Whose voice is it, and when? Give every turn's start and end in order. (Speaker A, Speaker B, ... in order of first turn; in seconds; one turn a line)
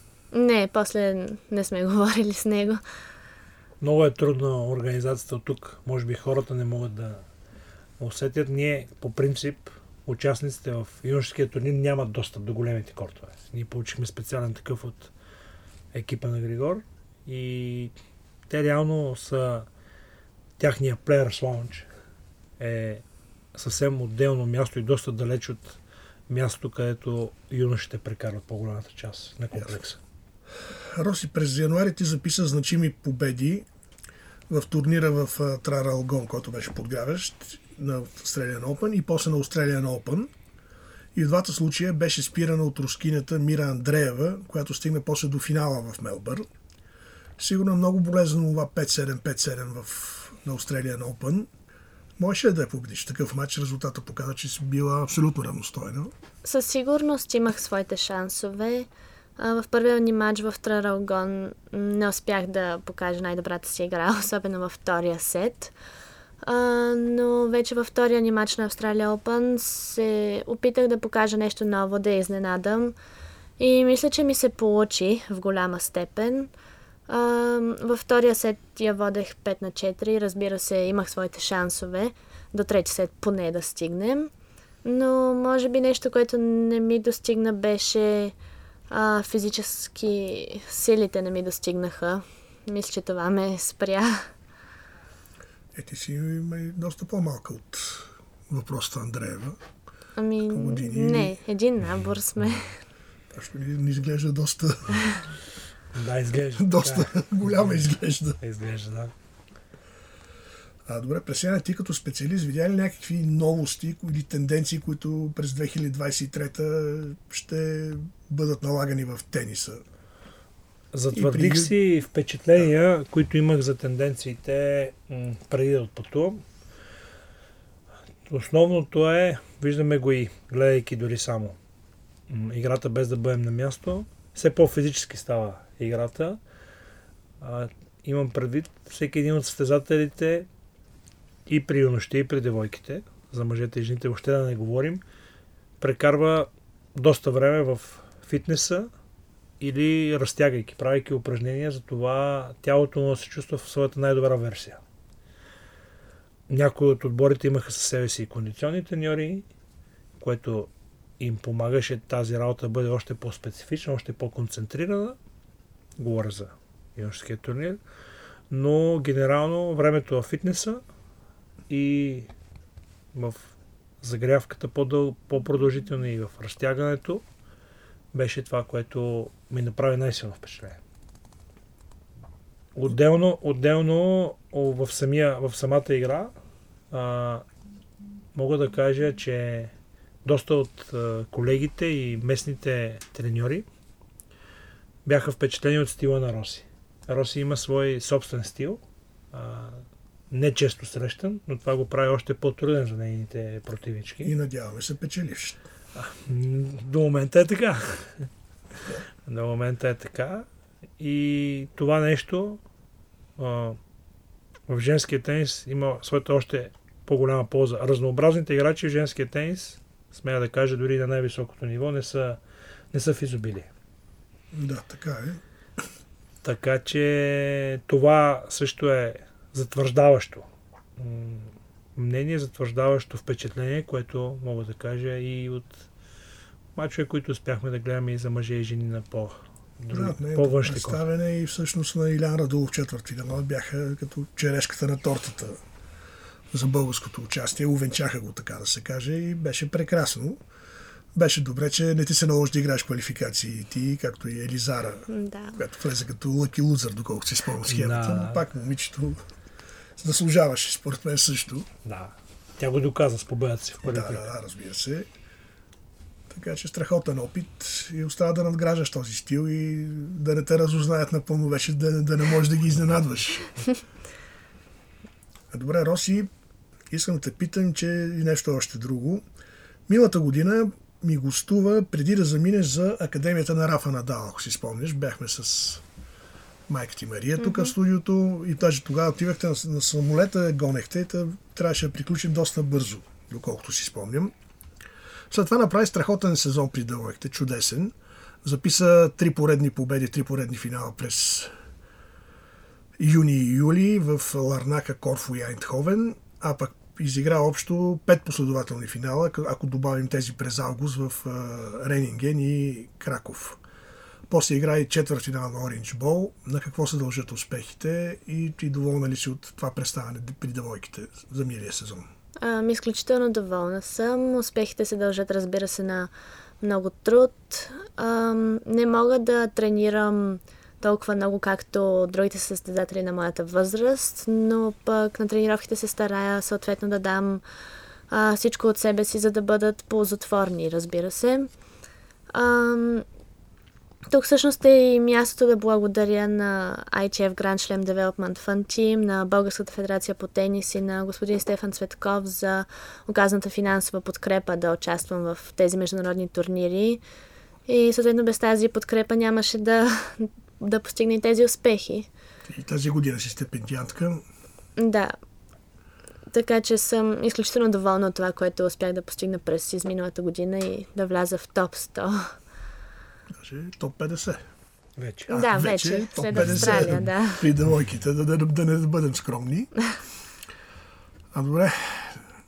Speaker A: 0.3-2.8
Speaker B: 3.8-7.2
Speaker B: 8.0-15.1
Speaker B: 15.9-17.9
Speaker B: 18.5-19.7
Speaker B: 20.6-21.9
Speaker B: 22.6-30.0
Speaker C: 30.7-33.6
Speaker C: 34.5-40.3
Speaker C: 41.1-46.5
Speaker C: 47.4-51.5
Speaker C: 52.2-56.1
Speaker A: 56.4-65.7
Speaker A: 66.4-72.9
Speaker A: 73.6-76.5
Speaker A: 77.1-84.3
Speaker A: 84.8-88.3
Speaker A: 88.9-94.3
Speaker C: 95.7-99.6
Speaker A: 100.2-102.8
Speaker C: 100.5-101.4
Speaker C: 103.3-105.2
Speaker B: 105.9-109.1
Speaker C: 106.5-108.4
Speaker C: 110.8-119.8
Speaker B: 120.9-126.4
Speaker C: 121.1-121.7
Speaker B: 128.3-131.6
Speaker B: 132.3-136.4
Speaker B: 137.4-140.5
Speaker B: 141.5-145.0
Speaker B: 145.8-148.9
Speaker B: 149.6-154.8
Speaker B: 156.5-159.4
Speaker B: 160.2-165.2
Speaker B: 166.0-167.8
Speaker B: 168.5-170.8
Speaker B: 171.7-172.3
Speaker B: 173.1-173.4
Speaker B: 174.0-177.2
Speaker B: 178.1-180.8
Speaker B: 182.7-186.3
Speaker B: 186.9-187.4
Speaker B: 188.3-189.7
Speaker B: 190.2-193.7
Speaker B: 195.0-198.8
Speaker B: 199.3-204.3
Speaker C: 204.2-205.6
Speaker B: 205.9-208.3
Speaker B: 209.2-210.4
Speaker B: 211.0-212.6
Speaker B: 213.4-213.8
Speaker B: 214.7-222.4
Speaker B: 222.9-223.7
Speaker C: 224.5-225.4
Speaker B: 226.4-230.4
Speaker B: 231.0-235.9
Speaker B: 236.8-241.0
Speaker C: 239.9-245.6
Speaker C: 246.5-250.4
Speaker C: 251.1-259.2
Speaker A: 255.1-255.6
Speaker B: 257.6-258.4
Speaker C: 260.0-261.7
Speaker B: 261.8-264.3
Speaker C: 263.8-265.1
Speaker C: 266.3-273.5
Speaker C: 275.5-276.3
Speaker C: 276.9-279.2
Speaker C: 279.9-285.8
Speaker C: 286.7-294.3
Speaker A: 287.4-287.7
Speaker C: 295.3-301.5
Speaker C: 303.0-313.6
Speaker C: 314.3-322.1
Speaker A: 322.4-337.4
Speaker A: 338.1-341.5
Speaker A: 342.3-343.1
Speaker A: 344.1-357.0
Speaker A: 357.7-362.1
Speaker C: 362.5-364.2
Speaker A: 364.8-365.1
Speaker A: 366.3-372.3
Speaker C: 373.3-374.4
Speaker B: 375.0-375.4
Speaker C: 375.3-379.7
Speaker A: 375.3-377.5
Speaker B: 376.4-376.9
Speaker C: 381.3-382.2